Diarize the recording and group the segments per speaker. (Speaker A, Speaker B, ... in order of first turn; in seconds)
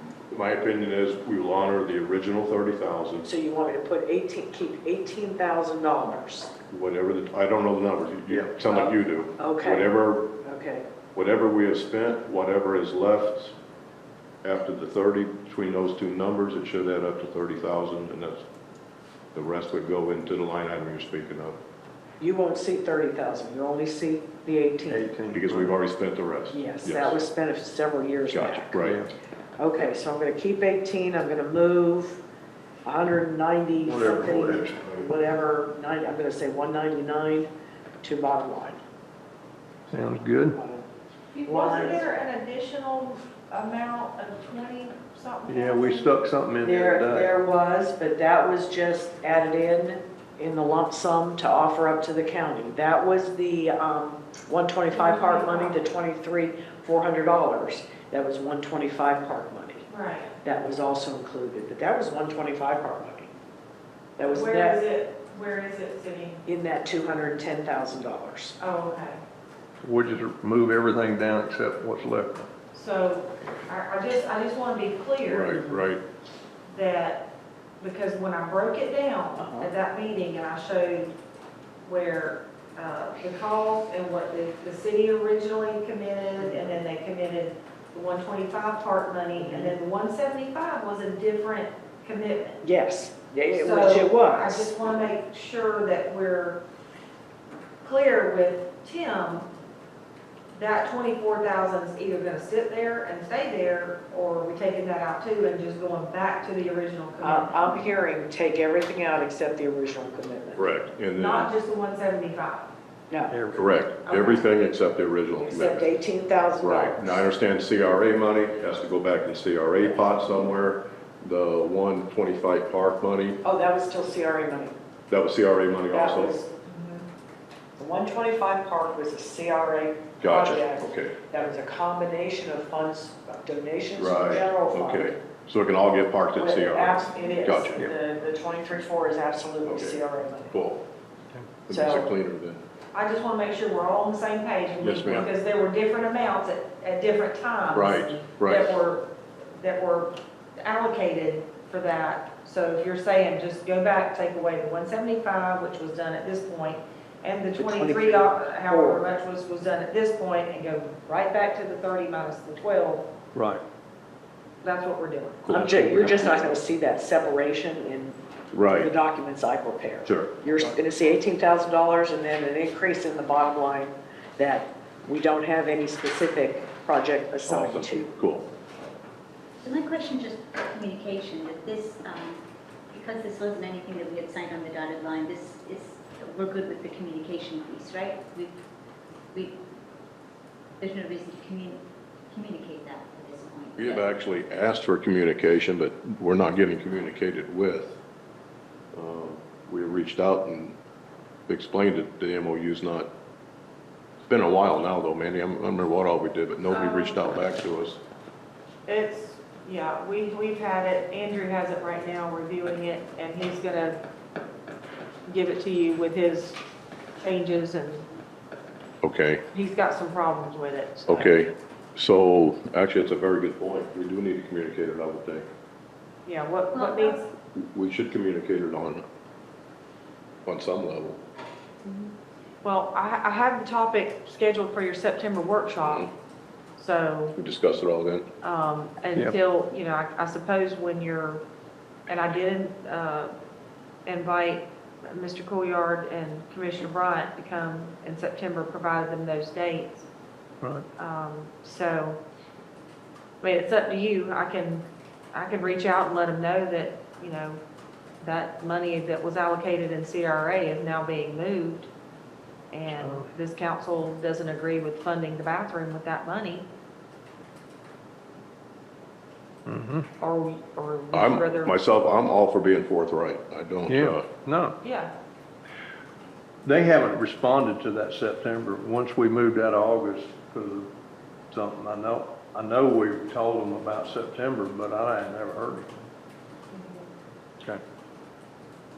Speaker A: 0.3-3.3, 6.7-10.3, 11.2-13.6, 14.4-18.4, 19.3-21.6, 25.3-27.2, 28.3-29.1, 75.3-76.0, 110.6-111.5, 113.5-115.9, 116.6-123.4, 125.1-126.4, 130.2-131.1, 134.0-137.8, 139.7-140.0, 140.5-140.8, 141.7-142.6, 144.8-145.3, 147.7-148.8, 165.4-166.1, 168.5-168.9, 170.1-170.3, 177.4-178.5, 193.8-198.0, 198.9-200.8, 201.5-203.1, 204.3-208.0, 219.0-219.4, 221.1-225.5, 227.6-229.1, 230.4-231.2, 235.8-236.1, 237.4-238.3, 271.1-274.3
Speaker B: 3.2-6.5, 8.7-10.8, 22.2-25.1, 26.5-28.8, 29.6-32.2, 32.9-37.5, 38.0-38.8, 40.5-40.9, 41.5-42.1, 46.6-59.9, 60.4-63.3, 64.2-64.8, 66.5-68.6, 79.4-79.7, 89.4-89.7, 92.6-95.0, 107.2-110.7, 115.4-117.2, 123.4-124.8, 125.9-126.5, 127.8-135.2, 136.4-140.6, 141.7-142.1, 157.6-159.1, 165.5-168.2, 168.7-178.1
Speaker C: 24.9-25.7, 28.8-29.1, 33.9-34.7, 39.9-40.6, 45.5-47.3, 69.8-72.5, 113.3-113.7, 163.3-163.6, 165.7-166.1, 262.9-263.3, 269.7-270.1, 273.9-274.8, 276.6-280.9, 281.5-286.1
Speaker D: 41.3-46.1, 54.9-55.8, 59.9-60.3, 64.2-66.4, 68.6-69.2, 72.7-75.8, 76.7-77.3, 77.8-81.2, 81.8-92.6, 93.5-96.6, 97.8-99.5, 100.5-107.7, 111.2-112.7, 114.0-114.5, 126.7-127.0, 142.9-163.1, 164.6-165.5, 206.7-207.2, 208.9-214.0, 215.3-216.6, 217.2-218.1, 219.5-221.4, 226.3-227.3, 231.8-236.1, 236.8-237.4, 238.4-241.4, 242.1-243.3, 244.1-250.1, 251.0-252.2, 253.4-257.6, 258.2-261.9, 262.7-266.7, 270.2-271.8, 274.8-275.1, 286.7-287.1
Speaker E: 179.6-182.4, 182.9-188.6, 189.3-189.6, 190.8-194.0, 226.7-227.2